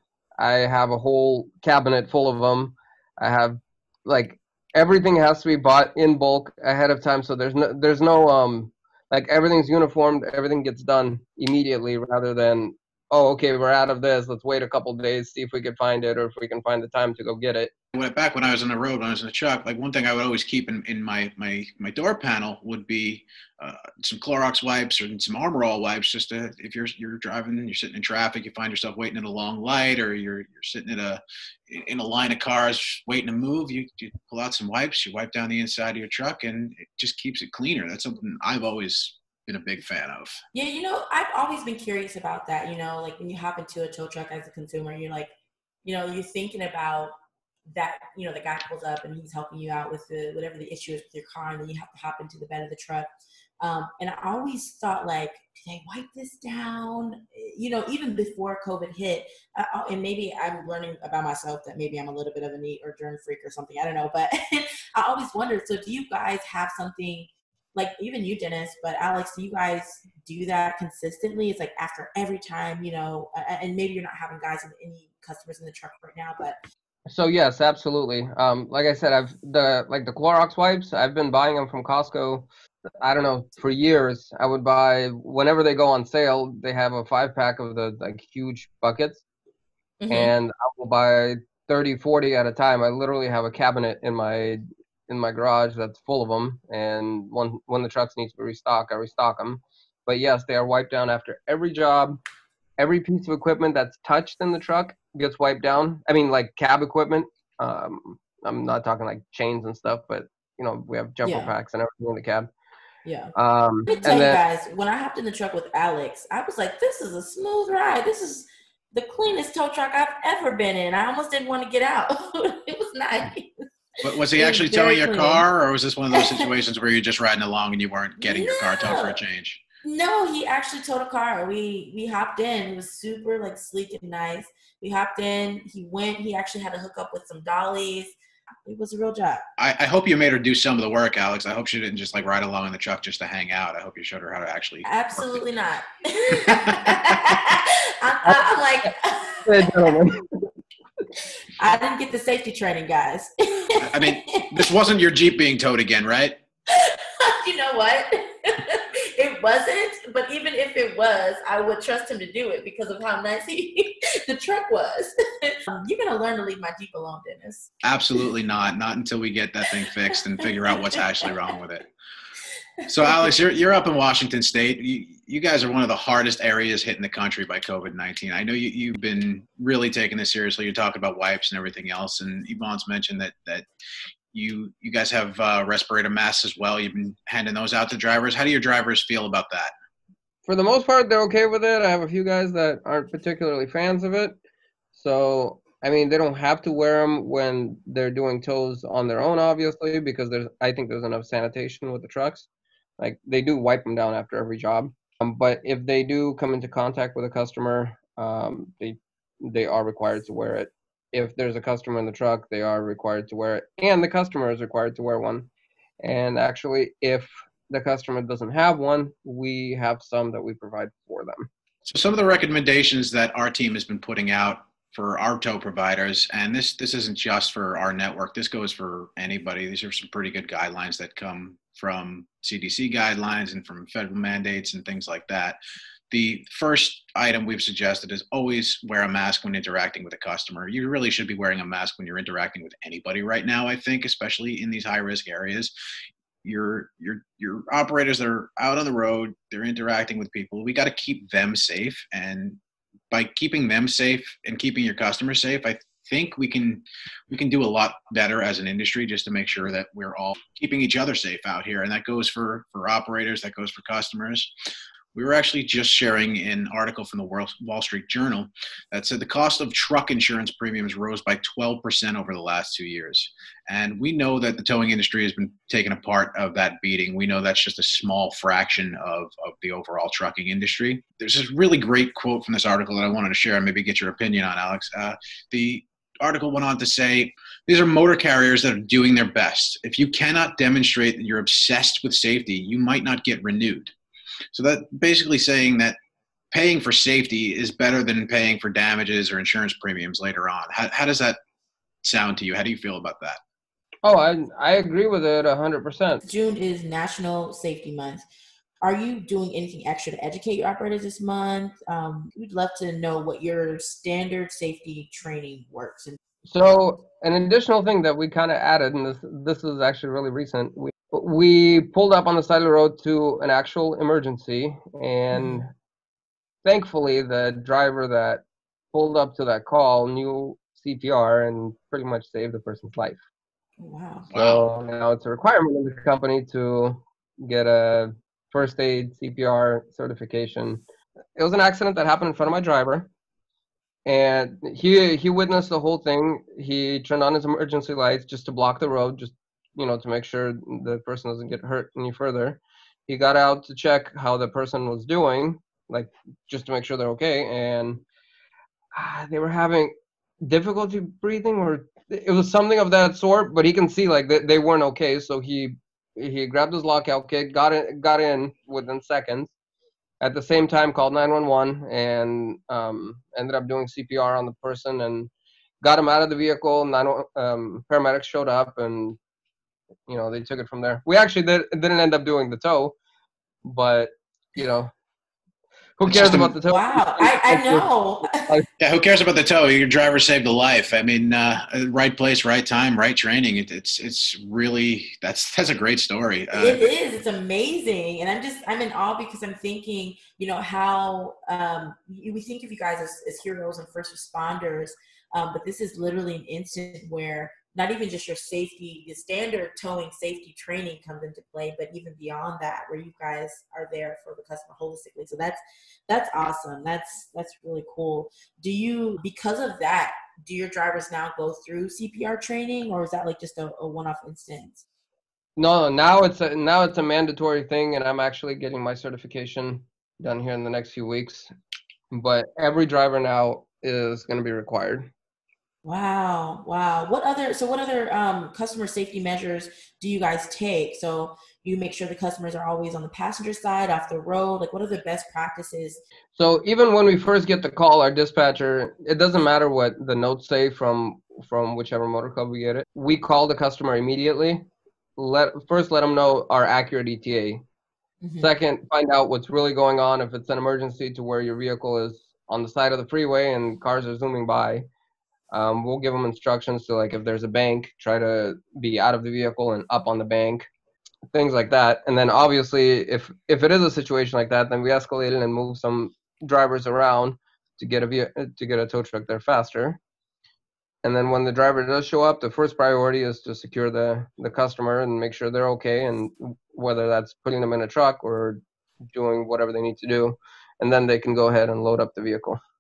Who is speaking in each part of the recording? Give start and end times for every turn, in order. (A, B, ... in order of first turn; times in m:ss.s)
0:00.4-0:17.7 A
0:17.9-0:40.4 B
0:40.5-0:45.3 C
0:45.8-0:47.1 C
0:47.7-0:53.1 C
0:53.6-1:16.6 C
1:17.1-1:22.5 A
1:23.0-1:29.2 A
1:30.0-1:30.3 C
1:30.1-1:42.2 A
1:42.8-1:52.5 A
1:51.2-1:51.5 C
1:53.0-1:53.3 C
1:53.4-1:54.4 A
1:53.9-2:03.6 C
2:04.0-2:09.6 B
2:04.3-2:05.4 C
2:06.1-2:06.5 C
2:08.2-2:09.2 C
2:09.8-2:19.4 C
2:19.6-2:25.4 B
2:24.8-2:30.1 C
2:26.3-2:27.2 B
2:28.2-2:28.9 A
2:29.4-2:30.4 A
2:31.6-2:34.7 C
2:33.8-2:36.4 B
2:36.7-2:47.8 C
2:47.8-2:51.9 B
2:50.4-2:51.0 C
2:52.8-2:53.3 C
2:52.9-3:03.7 B
3:04.3-3:09.7 B
3:10.4-3:14.4 A
3:14.9-3:22.5 A
3:23.0-3:35.5 A
3:36.0-3:41.5 A
3:41.8-3:55.6 B
3:56.1-4:05.7 B
4:06.4-4:12.6 B
4:13.1-4:24.5 B
4:25.1-4:53.9 B
4:54.5-4:56.0 B
4:56.5-5:01.4 B
5:02.0-5:03.4 B
5:04.0-5:06.2 A
5:06.3-5:08.2 C
5:08.8-5:16.2 C
5:16.5-5:25.7 A
5:25.3-5:25.6 C
5:26.6-5:33.2 A
5:33.8-5:34.3 C
5:34.3-5:34.7 B
5:34.4-5:40.8 A
5:41.4-5:43.1 A
5:44.1-5:58.0 A
5:58.9-6:09.5 A
6:10.2-6:19.2 A
6:20.1-6:23.0 A
6:23.6-6:24.9 A
6:26.0-6:28.7 A
6:26.1-6:26.5 B
6:26.6-6:28.4 C
6:28.8-6:36.9 B
6:36.6-7:04.8 C
7:05.6-7:11.5 A
7:12.1-7:15.1 A
7:15.8-7:26.0 C
7:26.4-7:37.6 A
7:38.2-7:38.5 C
7:38.4-7:44.9 A
7:45.5-7:50.7 A
7:51.3-8:00.0 A
8:01.0-8:12.6 A